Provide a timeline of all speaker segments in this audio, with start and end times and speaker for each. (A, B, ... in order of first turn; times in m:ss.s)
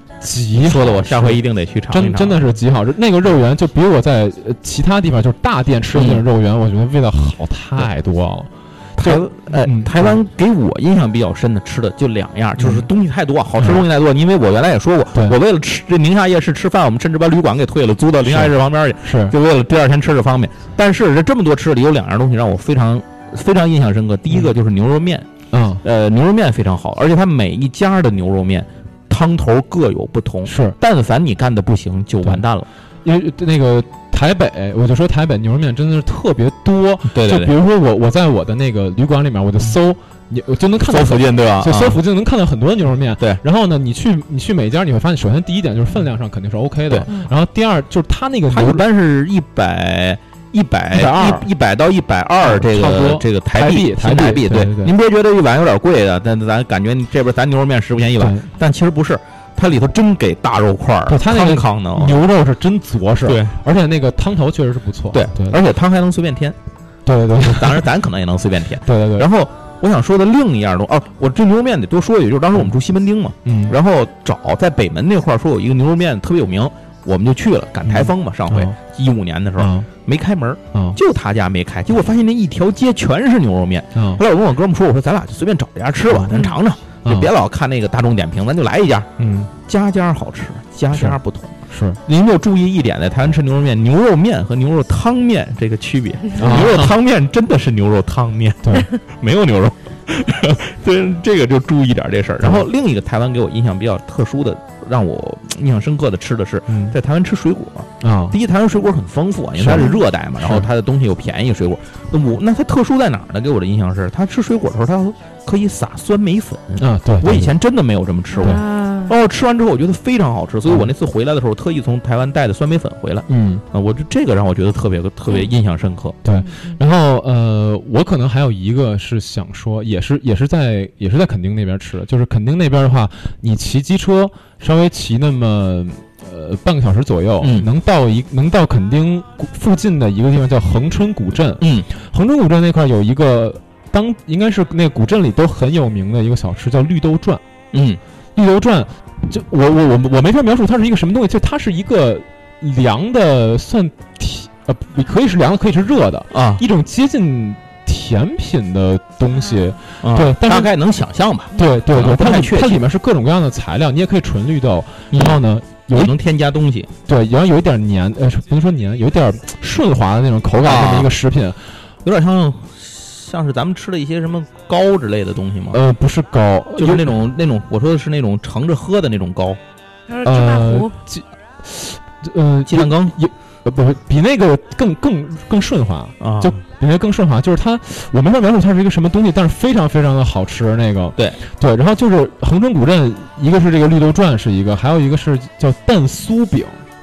0:00.2-0:10.2 A
0:00.6-0:02.4 B
0:05.9-0:06.2 B
0:09.0-0:25.3 B
0:12.6-0:12.9 A
0:13.6-0:13.9 A
0:18.2-0:19.3 A
0:25.5-0:25.8 A
0:25.8-0:32.7 B
0:30.5-0:30.8 A
0:33.0-0:48.8 A
0:37.1-0:37.5 B
0:40.9-0:42.0 B
0:48.5-1:02.2 B
0:50.9-0:51.5 A
0:52.4-0:54.9 A
0:58.2-0:58.5 A
1:01.1-1:05.6 A
1:03.2-1:03.6 B
1:05.1-1:06.6 B
1:07.0-1:07.9 A
1:07.4-1:29.1 B
1:08.8-1:09.3 A
1:13.4-1:13.8 A
1:17.9-1:18.8 A
1:19.6-1:19.9 A
1:24.0-1:24.2 A
1:26.1-1:26.4 A
1:27.0-1:27.3 A
1:29.2-1:29.5 A
1:29.7-2:06.2 B
1:30.9-1:31.2 A
1:31.7-1:32.0 A
1:36.4-1:37.0 A
1:46.7-1:47.0 A
1:48.0-1:48.4 A
1:49.6-1:50.7 A
1:49.7-1:50.0 C
1:56.8-1:57.5 A
1:58.4-1:59.1 C
2:03.3-2:03.6 A
2:06.2-2:27.4 A
2:06.3-2:06.8 C
2:17.4-2:17.7 B
2:21.6-2:21.9 B
2:27.7-2:28.0 B
2:28.4-2:40.7 A
2:36.3-2:36.6 B
2:40.0-2:42.8 B
2:41.6-2:46.2 A
2:45.1-2:45.4 B
2:45.9-2:46.9 B
2:47.1-2:51.6 A
2:50.6-2:51.1 B
2:52.0-2:55.8 B
2:55.7-2:57.2 A
2:56.7-2:59.6 B
3:00.1-3:00.9 C
3:00.2-3:16.8 A
3:02.7-3:03.2 B
3:06.2-3:06.6 B